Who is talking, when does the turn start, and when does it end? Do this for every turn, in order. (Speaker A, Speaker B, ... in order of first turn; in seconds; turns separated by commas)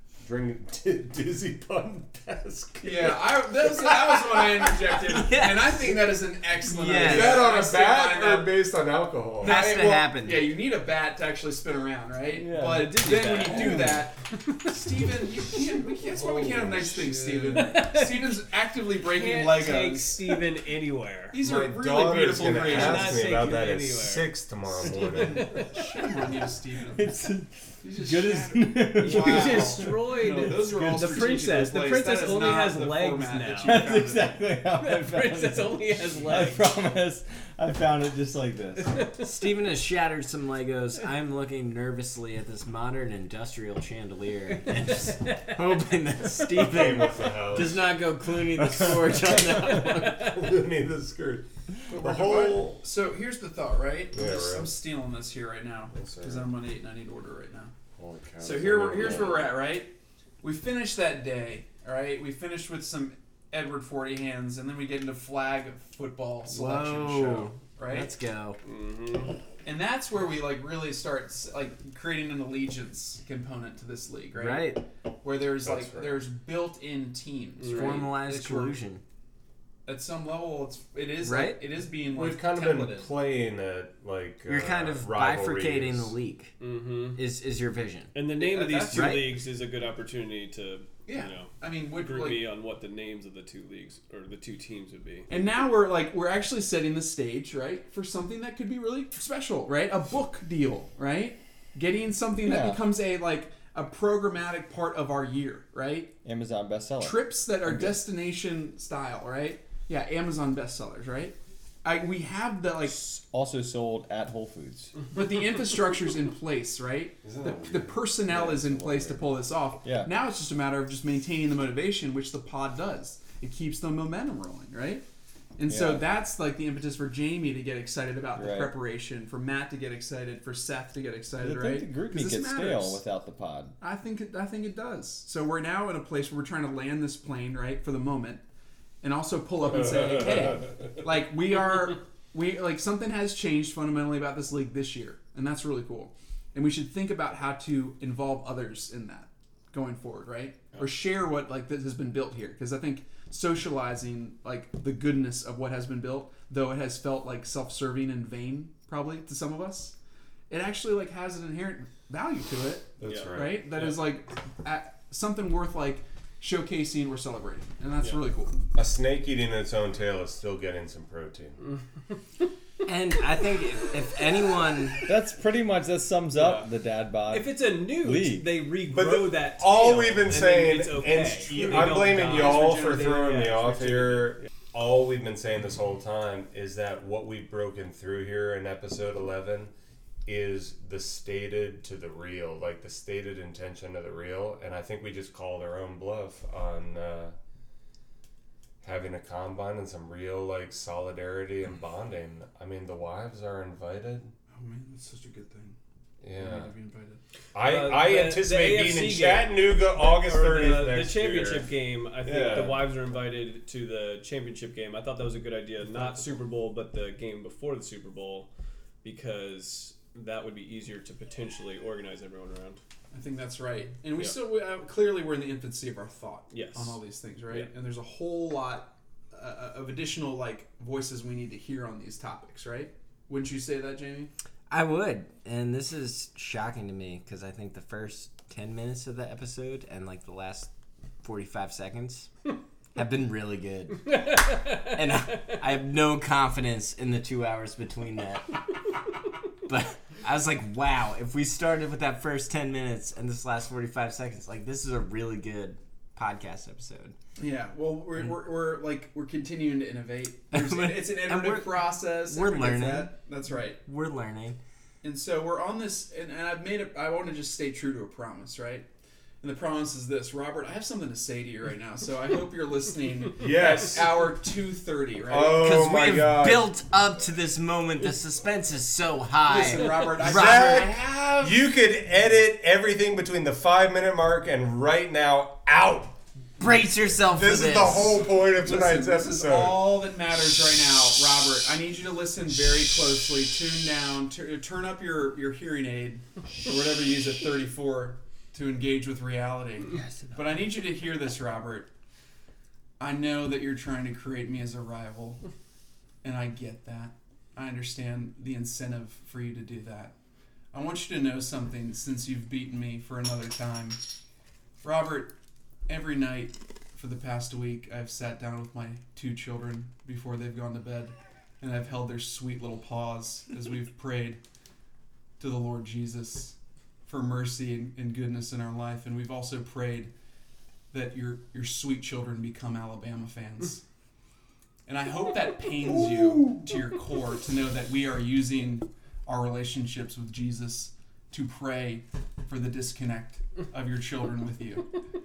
Speaker A: 0.2-4.2, Speaker B: 2.8-8.6, Speaker C: 5.0-7.4, Speaker A: 6.9-9.6, Speaker B: 9.4-20.4, Speaker C: 9.4-10.5, Speaker D: 12.3-14.0, Speaker A: 16.3-17.4, Speaker D: 17.5-18.4, Speaker D: 18.9-21.4, Speaker B: 21.3-23.3, Speaker A: 21.4-25.6, Speaker D: 22.5-26.0, Speaker B: 24.9-27.2, Speaker E: 26.9-30.1, Speaker B: 27.8-34.5, Speaker D: 28.9-34.0, Speaker E: 33.6-39.0, Speaker D: 34.6-36.7, Speaker D: 38.8-39.3, Speaker C: 39.2-50.2, Speaker D: 44.7-45.6, Speaker A: 46.5-47.8, Speaker D: 49.4-50.3, Speaker A: 49.5-52.8, Speaker B: 51.9-57.7, Speaker A: 54.1-54.7, Speaker A: 55.9-56.5, Speaker A: 58.0-59.5, Speaker B: 58.4-68.1, Speaker C: 66.5-68.6, Speaker D: 68.6-69.4, Speaker B: 69.6-78.8, Speaker C: 74.3-74.8, Speaker A: 75.6-76.2, Speaker D: 77.6-78.0, Speaker C: 77.6-79.0, Speaker B: 79.8-83.1, Speaker C: 81.2-81.6, Speaker A: 82.1-86.1, Speaker C: 84.5-86.5, Speaker D: 86.6-87.2, Speaker C: 87.1-88.1, Speaker D: 88.1-95.3, Speaker B: 88.4-89.2, Speaker C: 88.9-89.3, Speaker B: 91.1-92.5, Speaker B: 95.3-106.2, Speaker E: 102.4-102.8, Speaker E: 106.2-108.0, Speaker B: 107.0-113.0, Speaker E: 112.9-114.9, Speaker B: 115.1-125.0, Speaker A: 117.2-119.4, Speaker E: 119.8-120.1, Speaker B: 125.6-133.0, Speaker E: 125.7-126.1, Speaker E: 128.3-128.8, Speaker E: 131.4-133.8, Speaker B: 133.8-138.4, Speaker B: 139.0-159.9, Speaker B: 160.5-168.6, Speaker A: 163.0-163.7, Speaker D: 163.0-164.1, Speaker A: 168.7-171.6, Speaker C: 172.8-175.0, Speaker E: 175.1-178.5, Speaker D: 176.3-176.7, Speaker D: 177.3-184.4, Speaker A: 178.9-189.7, Speaker B: 181.5-183.3, Speaker A: 190.2-197.3, Speaker A: 198.8-204.3, Speaker B: 204.5-205.8, Speaker A: 206.2-206.7, Speaker B: 206.3-207.2, Speaker A: 207.5-211.7, Speaker D: 207.6-218.5, Speaker A: 212.2-212.8, Speaker E: 212.2-212.8, Speaker B: 215.8-216.4, Speaker D: 219.0-222.8, Speaker B: 223.1-234.3, Speaker D: 226.5-227.7, Speaker C: 234.7-240.7, Speaker C: 241.2-242.3, Speaker C: 242.9-244.1, Speaker D: 244.1-245.6, Speaker C: 244.9-248.5, Speaker C: 249.6-257.1, Speaker B: 257.4-263.8, Speaker C: 260.5-263.1, Speaker C: 263.8-264.6, Speaker B: 265.0-268.9, Speaker B: 269.4-275.7, Speaker A: 273.4-274.3, Speaker A: 275.2-276.7, Speaker C: 275.5-280.9, Speaker B: 279.4-281.6, Speaker A: 280.3-286.1, Speaker C: 286.6-288.2, Speaker A: 287.3-290.0, Speaker B: 288.4-301.9, Speaker E: 300.0-300.6, Speaker B: 303.0-305.4, Speaker B: 306.2-310.1, Speaker B: 310.7-314.0, Speaker B: 314.8-315.3, Speaker B: 315.9-324.4, Speaker B: 325.4-330.1, Speaker B: 330.9-333.8, Speaker B: 334.9-344.9